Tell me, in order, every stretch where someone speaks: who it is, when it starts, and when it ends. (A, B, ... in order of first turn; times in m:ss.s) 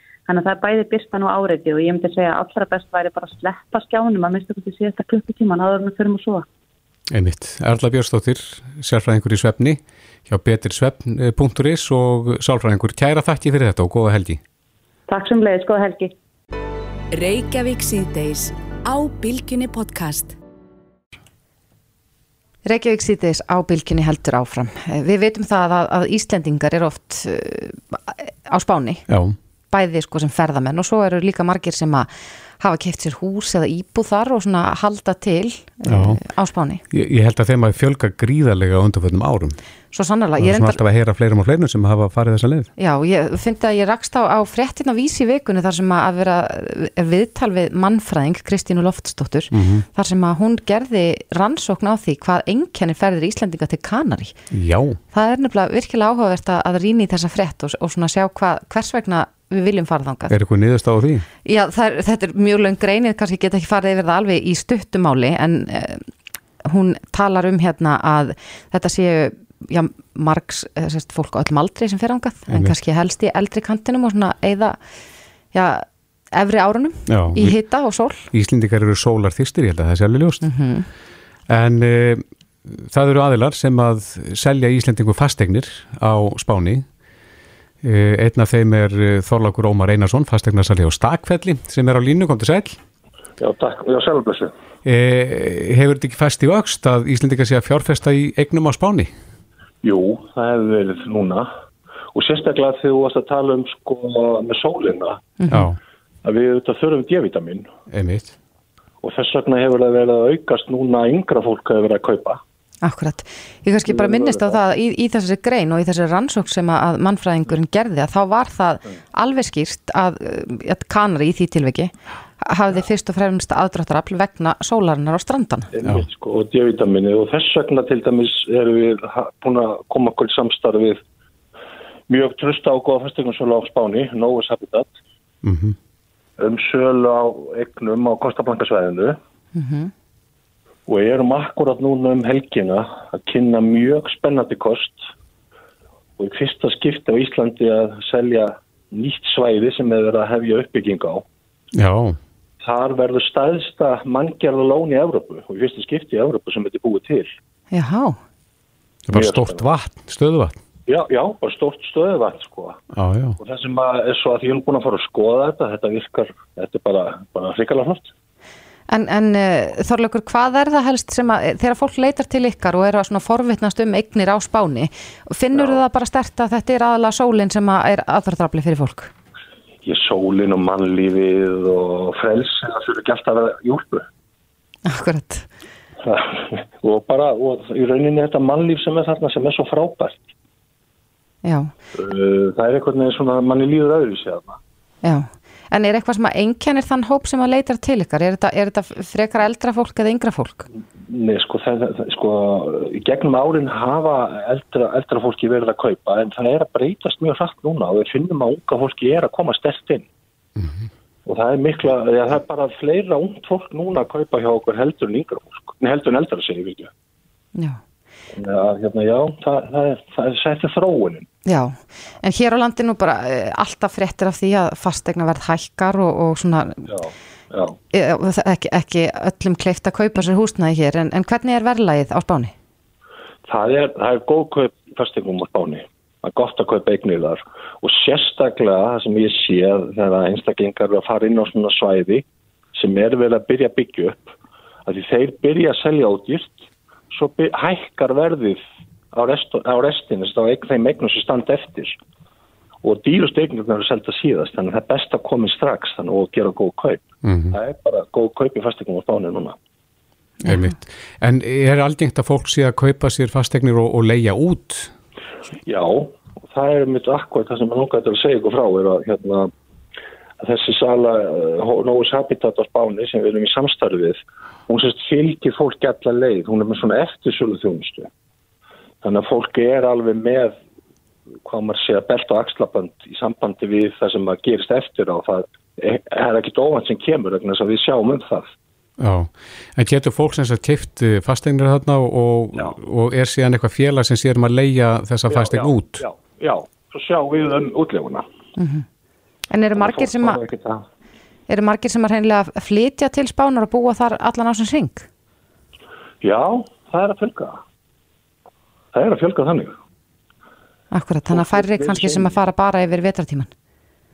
0:00.3-0:06.4 A
0:07.1-0:14.4 B
0:15.1-0:16.1 A
0:17.1-0:20.4 C
0:22.6-0:29.0 D
0:29.1-0:29.4 B
0:29.7-0:36.8 D
0:35.9-0:36.2 B
0:36.9-0:39.6 B
0:39.9-0:40.8 D
0:40.4-0:42.7 B
0:42.8-0:54.4 D
0:49.5-0:49.8 B
0:54.5-0:55.0 B
0:55.1-1:00.3 D
1:00.3-1:01.2 B
1:01.4-1:06.0 D
1:06.6-1:14.8 D
1:15.5-1:18.2 D
1:17.1-1:17.6 B
1:18.3-1:20.4 B
1:20.4-1:20.9 D
1:21.5-1:26.8 B
1:27.8-1:32.8 B
1:33.4-1:34.5 E
1:34.8-1:39.1 B
1:39.8-1:41.5 E
1:42.1-1:45.3 E
1:45.4-1:45.7 D
1:45.5-1:45.8 B
1:46.2-1:47.7 E
1:47.9-1:48.3 B
1:49.0-1:52.4 E
1:52.8-2:05.7 D
1:53.8-1:54.6 E
2:05.7-2:11.0 E
2:12.1-2:14.9 E
2:15.4-2:15.8 B
2:16.4-2:19.2 E
2:19.5-2:19.9 D
2:20.9-2:25.0 E
2:26.2-2:31.2 E
2:31.7-2:32.2 B
2:32.6-2:37.3 E
2:37.7-2:38.2 D
2:39.1-2:40.6 B
2:39.1-2:39.6 E
2:40.9-2:42.8 E
2:42.9-2:43.4 B
2:43.4-2:48.1 E
2:48.9-2:59.1 D
2:55.5-2:55.8 E
2:59.8-3:04.1 E
3:04.8-3:05.5 D
3:06.0-3:10.2 E
3:11.4-3:11.7 D
3:11.9-3:14.6 E
3:15.0-3:20.7 D
3:21.0-3:30.0 E
3:31.2-3:36.9 E
3:38.3-3:41.3 E
3:41.4-3:46.9 D
3:46.9-3:47.8 E
3:47.9-3:52.5 D
3:53.4-4:04.3 E
4:04.8-4:08.6 E
4:09.1-4:12.0 E
4:12.8-4:19.6 E
4:17.2-4:17.6 B
4:20.4-4:24.9 B
4:20.4-4:20.7 D
4:25.6-4:29.5 E
4:30.4-4:38.1 E
4:39.0-4:40.5 E
4:41.4-4:48.5 E
4:49.0-4:56.0 B
4:55.3-4:58.2 E
4:58.6-4:58.8 D
4:59.5-5:00.4 D
4:59.7-5:00.8 E
5:01.5-5:05.0 D
5:06.2-5:07.6 E
5:08.9-5:09.7 E
5:10.9-5:13.5 D
5:11.3-5:12.4 E